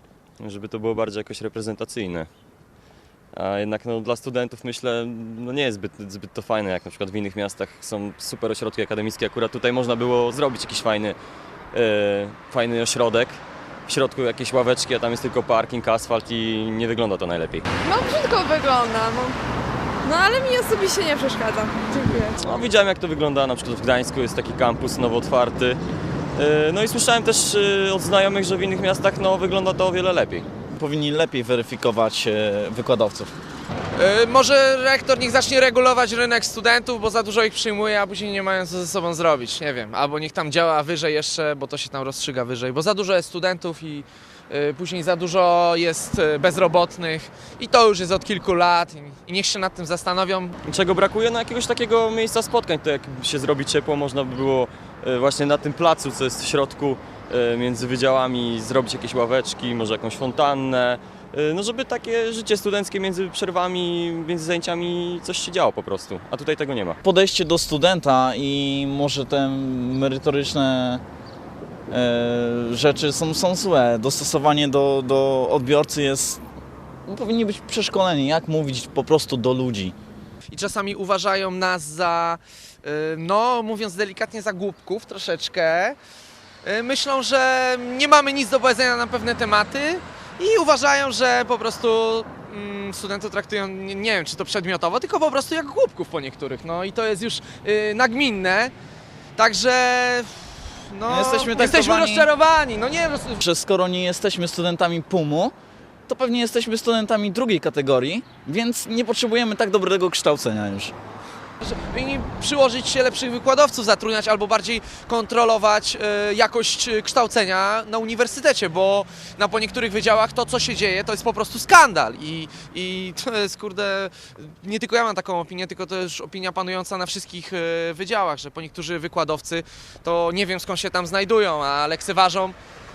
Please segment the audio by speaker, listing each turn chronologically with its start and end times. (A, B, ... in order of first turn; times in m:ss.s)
0:00.4-0:02.3 A
0:03.3-0:11.2 A
0:11.7-0:17.6 A
0:17.8-0:19.4 B
0:20.0-0:22.4 B
0:22.4-0:25.8 A
0:26.4-0:30.4 A
0:30.7-0:33.3 C
0:34.0-0:50.6 D
0:50.6-1:07.0 A
1:07.0-1:11.0 C
1:11.9-1:16.4 C
1:17.1-1:19.9 C
1:20.5-1:26.0 D
1:26.6-1:38.7 D
1:39.4-1:43.4 D
1:41.1-1:42.3 C
1:43.4-1:45.5 C
1:46.1-1:50.9 C
1:51.6-2:12.6 D